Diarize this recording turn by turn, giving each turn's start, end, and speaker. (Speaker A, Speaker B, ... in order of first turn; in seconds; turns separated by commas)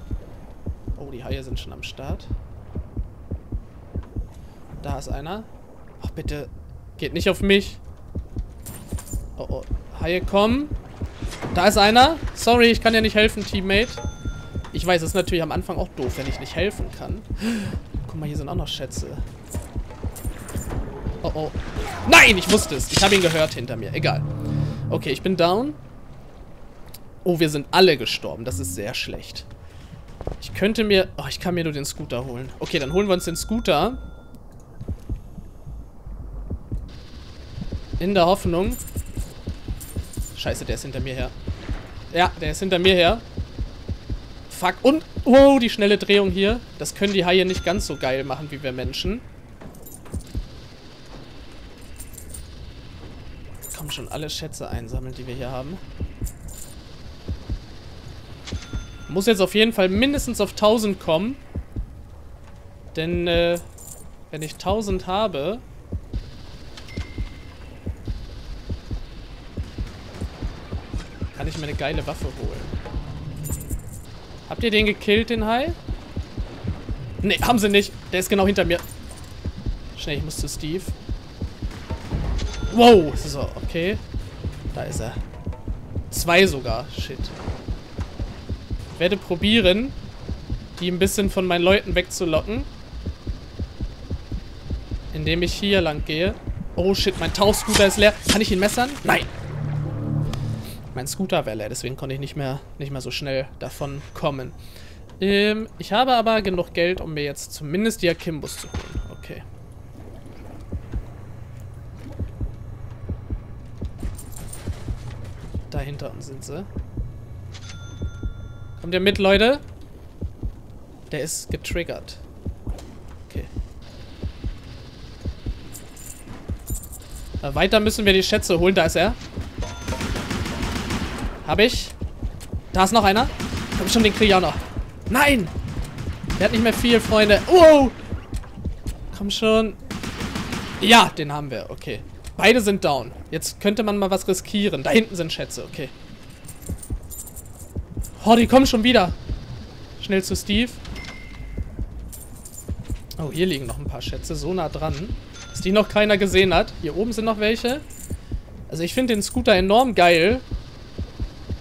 Speaker A: 0.9-2.3, Speaker A: 4.8-5.5, Speaker A: 6.0-7.8, Speaker A: 9.4-10.7, Speaker A: 11.5-14.0, Speaker A: 14.7-19.2, Speaker A: 21.2-24.3, Speaker A: 24.9-25.8, Speaker A: 27.2-29.5, Speaker A: 30.4-34.0, Speaker A: 38.0-38.8, Speaker A: 40.3-41.3, Speaker A: 42.1-43.2, Speaker A: 44.5-49.2, Speaker A: 53.7-55.8, Speaker A: 59.1-61.4, Speaker A: 62.9-63.6, Speaker A: 64.3-65.6, Speaker A: 71.3-72.7, Speaker A: 74.5-75.8, Speaker A: 77.2-78.8, Speaker A: 79.9-81.0, Speaker A: 82.7-84.0, Speaker A: 84.7-85.2, Speaker A: 86.1-87.4, Speaker A: 88.9-90.0, Speaker A: 90.8-92.7, Speaker A: 95.1-99.3, Speaker A: 100.9-104.6, Speaker A: 105.2-109.4, Speaker A: 115.7-116.7, Speaker A: 118.8-119.6, Speaker A: 121.1-122.2, Speaker A: 127.4-129.2, Speaker A: 131.4-131.9, Speaker A: 132.7-135.5, Speaker A: 136.4-137.9, Speaker A: 139.1-139.8, Speaker A: 140.8-145.9, Speaker A: 148.2-149.2, Speaker A: 150.0-150.8, Speaker A: 153.2-157.8, Speaker A: 158.7-160.4